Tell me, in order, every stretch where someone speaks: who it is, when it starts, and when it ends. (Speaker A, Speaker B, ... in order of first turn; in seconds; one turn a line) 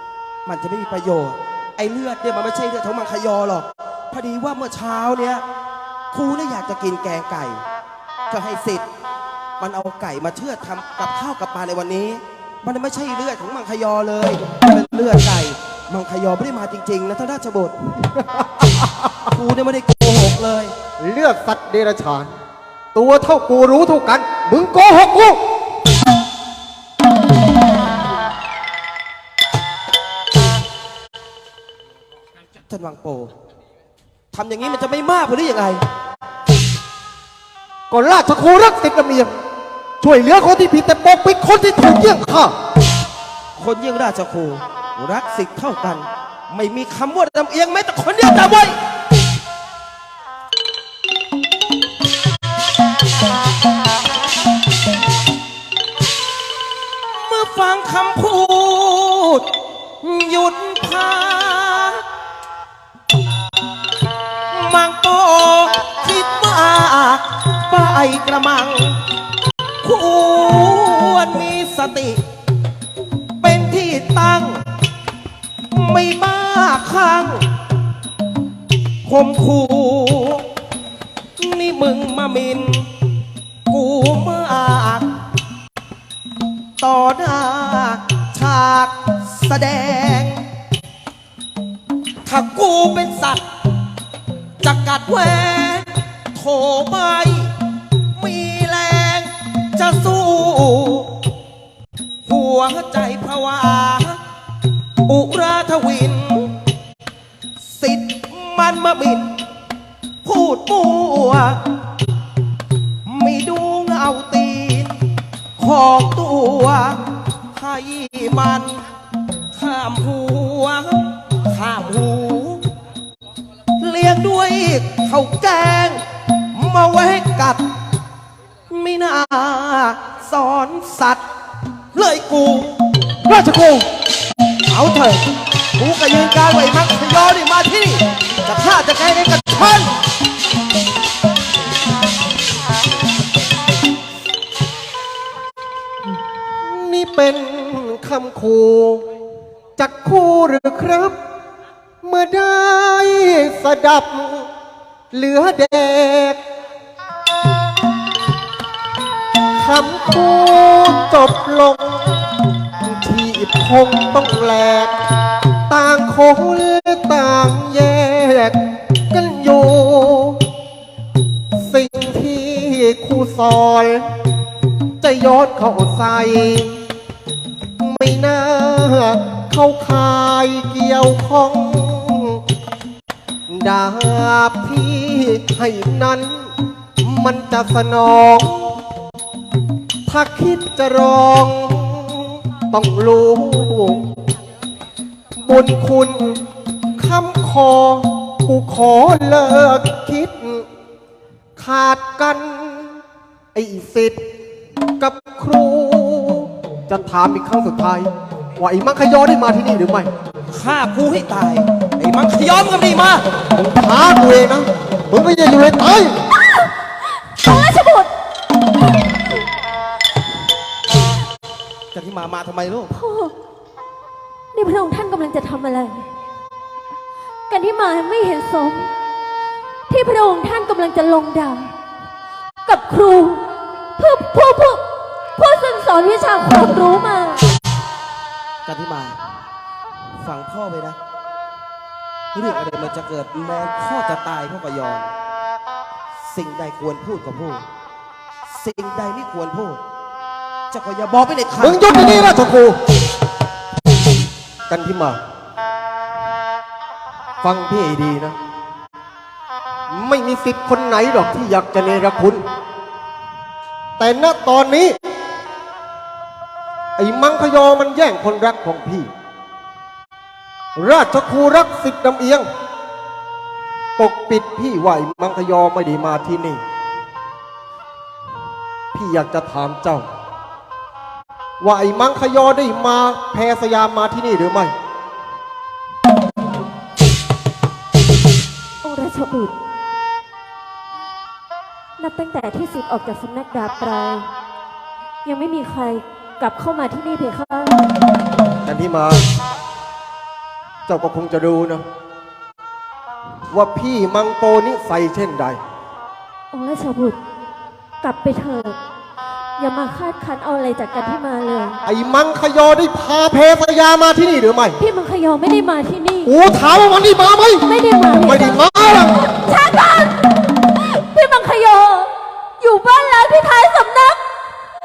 Speaker A: 0.5-5.5
Speaker A: 6.1-7.6
Speaker A: 8.3-8.9
Speaker A: 9.6-17.8
Speaker B: 18.1-19.3
Speaker A: 19.3-20.8
Speaker B: 21.0-22.3
Speaker B: 22.9-25.4
Speaker A: 32.7-33.3
Speaker A: 34.3-35.9
Speaker B: 37.9-39.3
Speaker B: 40.0-42.5
Speaker A: 43.6-48.8
Speaker A: 57.0-59.5
Speaker A: 60.0-62.0
Speaker A: 64.5-69.0
Speaker A: 69.8-72.2
Speaker A: 73.4-74.7
Speaker A: 75.7-77.5
Speaker A: 79.0-80.5
Speaker A: 81.4-82.9
Speaker A: 83.7-85.1
Speaker A: 86.8-90.5
Speaker A: 92.2-93.5
Speaker A: 94.6-97.5
Speaker A: 98.2-101.2
Speaker A: 102.2-104.2
Speaker A: 105.1-106.6
Speaker A: 107.6-109.3
Speaker A: 110.2-111.7
Speaker A: 113.0-115.0
Speaker A: 115.6-118.8
Speaker A: 119.5-122.7
Speaker A: 123.8-127.7
Speaker A: 128.7-131.2
Speaker A: 131.9-132.8
Speaker B: 133.2-133.9
Speaker A: 134.7-139.9
Speaker B: 146.6-149.0
Speaker B: 149.8-151.2
Speaker B: 152.0-154.5
Speaker B: 155.1-156.4
Speaker B: 159.6-162.1
Speaker B: 162.8-164.9
Speaker B: 165.7-168.6
Speaker B: 169.1-170.4
Speaker B: 171.6-174.1
Speaker B: 175.0-176.8
Speaker B: 177.8-182.4
Speaker B: 183.5-188.8
Speaker B: 190.1-194.1
Speaker B: 195.4-196.4
Speaker B: 197.0-200.7
Speaker B: 201.6-203.0
Speaker B: 203.6-204.2
Speaker B: 205.0-210.1
Speaker A: 210.5-213.3
Speaker B: 213.5-216.2
Speaker C: 217.3-218.1
Speaker A: 221.9-223.0
Speaker C: 223.0-223.3
Speaker C: 224.5-226.1
Speaker C: 227.5-228.9
Speaker C: 229.9-231.7
Speaker C: 232.7-234.8
Speaker C: 235.4-237.5
Speaker A: 238.7-239.2
Speaker A: 240.2-241.0
Speaker A: 242.3-245.1
Speaker A: 246.2-247.7
Speaker A: 248.4-249.8
Speaker A: 250.7-252.3
Speaker B: 251.6-252.8
Speaker B: 254.7-255.2
Speaker B: 257.4-258.4
Speaker B: 259.9-262.4
Speaker B: 264.0-264.9
Speaker B: 267.0-269.1
Speaker B: 270.8-272.4
Speaker B: 274.0-276.6
Speaker B: 278.9-280.1
Speaker B: 281.6-284.7
Speaker C: 288.8-289.5
Speaker C: 292.0-294.3
Speaker C: 295.2-297.8
Speaker B: 298.7-299.2
Speaker B: 300.9-301.8
Speaker B: 303.5-305.6
Speaker C: 306.5-307.2
Speaker C: 308.0-308.8
Speaker C: 309.6-311.8
Speaker B: 311.9-314.8
Speaker C: 314.8-316.3
Speaker B: 316.2-319.3
Speaker C: 317.7-318.6
Speaker C: 319.4-324.2